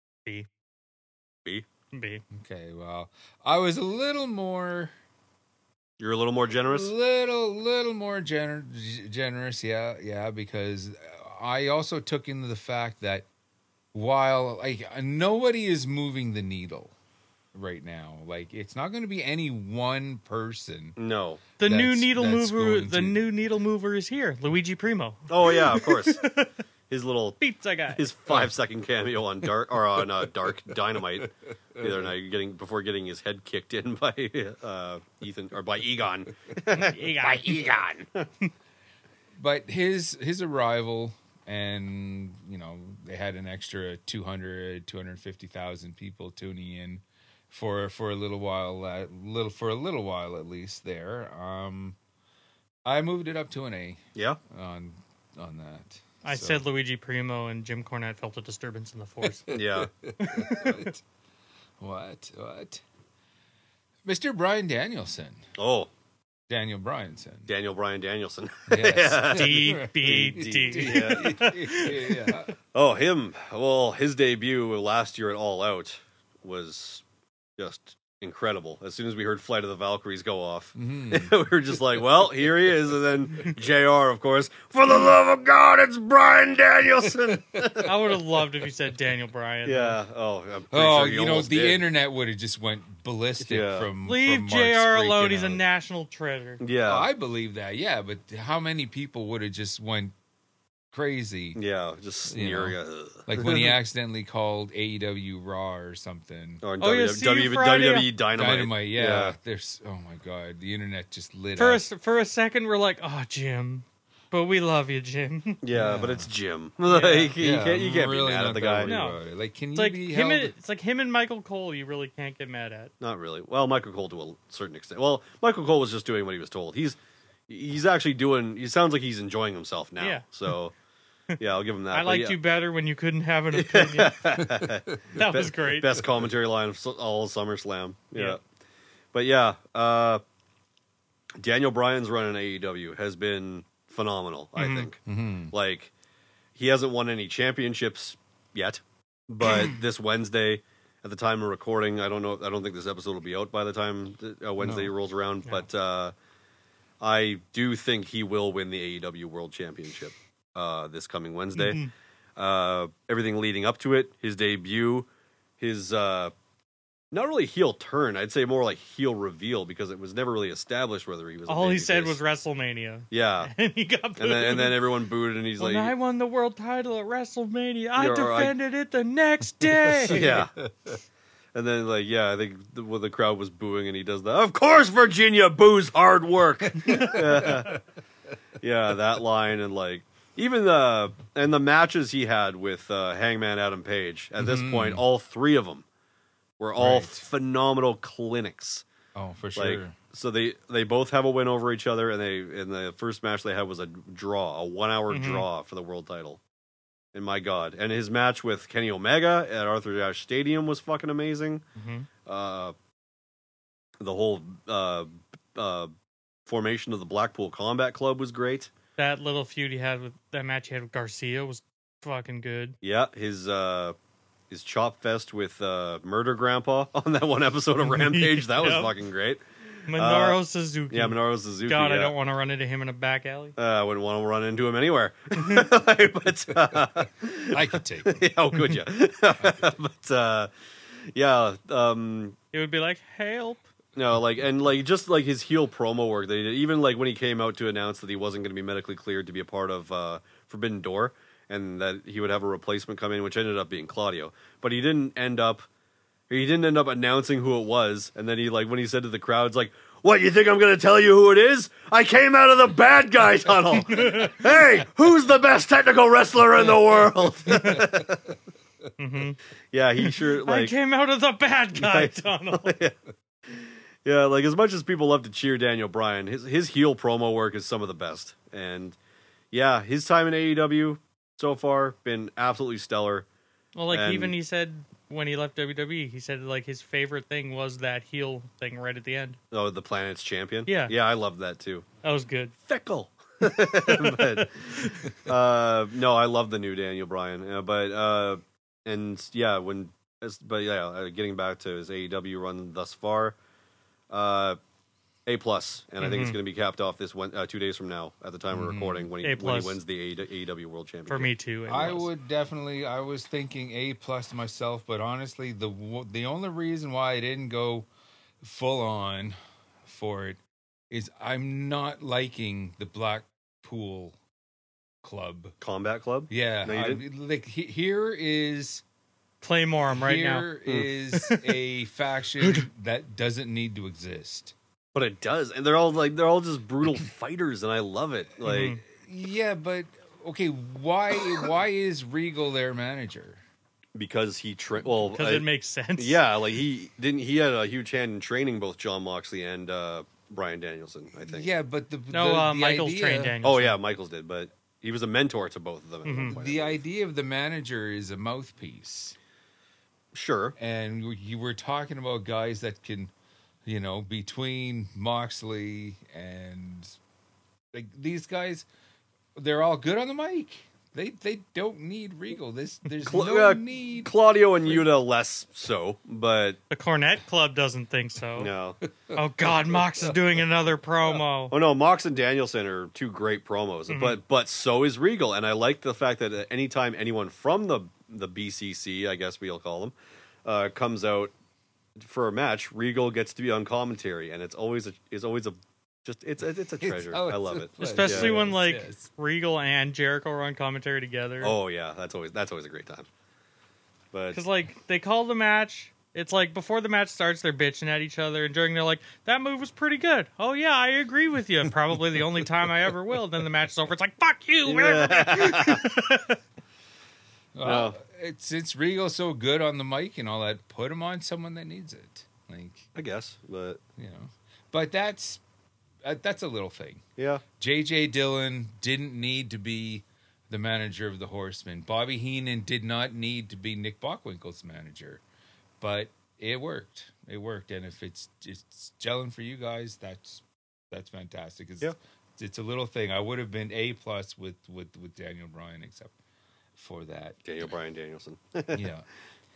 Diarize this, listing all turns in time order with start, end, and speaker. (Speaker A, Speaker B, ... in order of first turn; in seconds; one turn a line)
Speaker A: 1.9-2.2
Speaker B: 2.3-4.9
Speaker C: 6.0-6.9
Speaker B: 6.7-13.2
Speaker B: 13.9-16.9
Speaker B: 17.5-21.0
Speaker C: 21.0-21.4
Speaker A: 21.6-26.5
Speaker B: 21.6-23.2
Speaker C: 25.3-26.2
Speaker C: 26.9-27.4
Speaker A: 27.4-28.3
Speaker C: 27.9-38.2
Speaker B: 31.8-32.1
Speaker A: 36.7-37.8
Speaker B: 39.4-52.0
Speaker B: 52.8-56.6
Speaker C: 54.1-54.4
Speaker A: 56.2-59.5
Speaker B: 59.2-61.0
Speaker C: 59.5-59.9
Speaker A: 60.2-60.9
Speaker B: 61.8-62.8
Speaker B: 64.0-65.4
Speaker C: 65.5-65.9
Speaker B: 66.5-67.5
Speaker C: 67.5-71.3
Speaker B: 68.7-72.5
Speaker A: 69.3-72.3
Speaker C: 72.7-77.0
Speaker C: 77.6-87.9
Speaker B: 80.8-81.3
Speaker B: 87.3-87.7
Speaker A: 87.8-90.0
Speaker C: 89.6-91.8
Speaker B: 90.7-95.6
Speaker C: 93.4-93.9
Speaker A: 94.0-96.6
Speaker C: 96.6-97.1
Speaker B: 96.8-100.1
Speaker B: 100.9-101.6
Speaker C: 101.5-103.7
Speaker B: 102.3-106.6
Speaker C: 106.6-109.3
Speaker A: 106.8-108.1
Speaker B: 108.3-111.8
Speaker A: 111.5-115.6
Speaker C: 115.6-119.0
Speaker B: 115.7-116.3
Speaker A: 116.9-117.3
Speaker B: 117.4-120.5
Speaker A: 118.8-119.2
Speaker A: 119.7-122.9
Speaker C: 123.0-130.7
Speaker A: 130.0-130.4
Speaker C: 131.4-132.4
Speaker A: 131.9-134.2
Speaker C: 133.5-138.4
Speaker A: 135.1-136.0
Speaker C: 139.1-140.2
Speaker C: 141.4-145.0
Speaker A: 144.6-144.9
Speaker B: 145.1-145.5
Speaker C: 145.5-145.9
Speaker C: 146.5-156.1
Speaker B: 154.6-154.9
Speaker C: 157.0-161.8
Speaker A: 161.5-161.9
Speaker C: 162.4-165.1
Speaker C: 165.6-166.3
Speaker C: 167.1-172.2
Speaker A: 171.5-174.8
Speaker C: 173.1-173.5
Speaker C: 174.2-175.9
Speaker A: 175.6-180.4
Speaker C: 178.0-178.5
Speaker B: 179.7-181.0
Speaker C: 180.1-180.5
Speaker C: 181.5-187.8
Speaker B: 186.6-187.8
Speaker A: 186.9-187.5
Speaker C: 188.6-195.8
Speaker B: 194.4-195.0
Speaker C: 196.6-198.8
Speaker B: 196.8-197.2
Speaker B: 199.1-199.9
Speaker C: 199.6-206.4
Speaker A: 205.1-205.5
Speaker C: 207.1-211.6
Speaker A: 211.8-212.1
Speaker C: 212.2-212.7
Speaker C: 214.0-215.9
Speaker C: 216.4-218.7
Speaker A: 219.0-222.8
Speaker C: 222.8-223.9
Speaker C: 224.5-230.4
Speaker A: 227.8-228.9
Speaker A: 229.9-233.5
Speaker C: 230.9-232.1
Speaker C: 233.6-240.5
Speaker B: 237.5-238.3
Speaker C: 241.1-242.4
Speaker A: 242.5-243.6
Speaker C: 243.9-255.7
Speaker C: 256.3-268.3
Speaker A: 263.7-264.5
Speaker A: 267.5-267.8
Speaker B: 267.5-267.8
Speaker A: 269.0-269.4
Speaker C: 269.7-270.7
Speaker A: 270.0-272.8
Speaker C: 271.7-272.9
Speaker C: 273.5-279.0
Speaker C: 279.5-283.2
Speaker A: 283.7-289.4
Speaker C: 283.9-284.3
Speaker C: 289.5-291.9
Speaker A: 290.7-290.9
Speaker A: 292.0-292.5
Speaker C: 292.6-303.4
Speaker A: 293.8-295.1
Speaker C: 304.1-304.6
Speaker C: 305.2-311.3
Speaker A: 306.0-306.4
Speaker B: 308.5-309.1
Speaker A: 309.2-309.8
Speaker A: 311.1-312.1
Speaker B: 311.7-317.9
Speaker B: 318.4-320.4
Speaker B: 320.9-324.2
Speaker B: 325.0-325.5
Speaker C: 325.6-327.0
Speaker B: 326.3-328.8
Speaker A: 329.4-330.5
Speaker B: 329.9-334.5
Speaker A: 331.1-331.6
Speaker A: 332.4-332.6
Speaker C: 334.9-338.8
Speaker A: 338.4-338.8
Speaker B: 338.5-343.4
Speaker C: 343.9-345.4
Speaker A: 344.9-346.2
Speaker C: 346.0-351.5
Speaker B: 351.2-353.4
Speaker A: 352.1-353.8
Speaker C: 353.4-356.8
Speaker A: 356.0-356.3
Speaker B: 356.3-359.1
Speaker C: 360.1-360.6
Speaker B: 360.6-363.1
Speaker B: 363.6-366.9
Speaker B: 367.7-368.7
Speaker B: 369.3-374.1
Speaker C: 373.0-376.6
Speaker A: 376.7-378.5
Speaker C: 378.4-378.8
Speaker A: 379.1-381.5
Speaker B: 379.7-380.1
Speaker C: 381.5-391.3
Speaker A: 383.9-384.2
Speaker C: 392.0-398.4
Speaker B: 396.8-399.1
Speaker A: 397.8-401.5
Speaker C: 401.4-403.1
Speaker C: 404.1-404.4
Speaker A: 404.3-416.4
Speaker C: 414.6-415.9
Speaker B: 417.5-422.9
Speaker C: 417.6-417.9
Speaker C: 422.9-423.8
Speaker B: 424.0-425.4
Speaker B: 426.0-427.0
Speaker C: 427.2-427.4
Speaker B: 427.6-435.2
Speaker B: 435.8-446.1
Speaker B: 446.8-447.4
Speaker C: 447.4-448.9
Speaker B: 448.7-449.1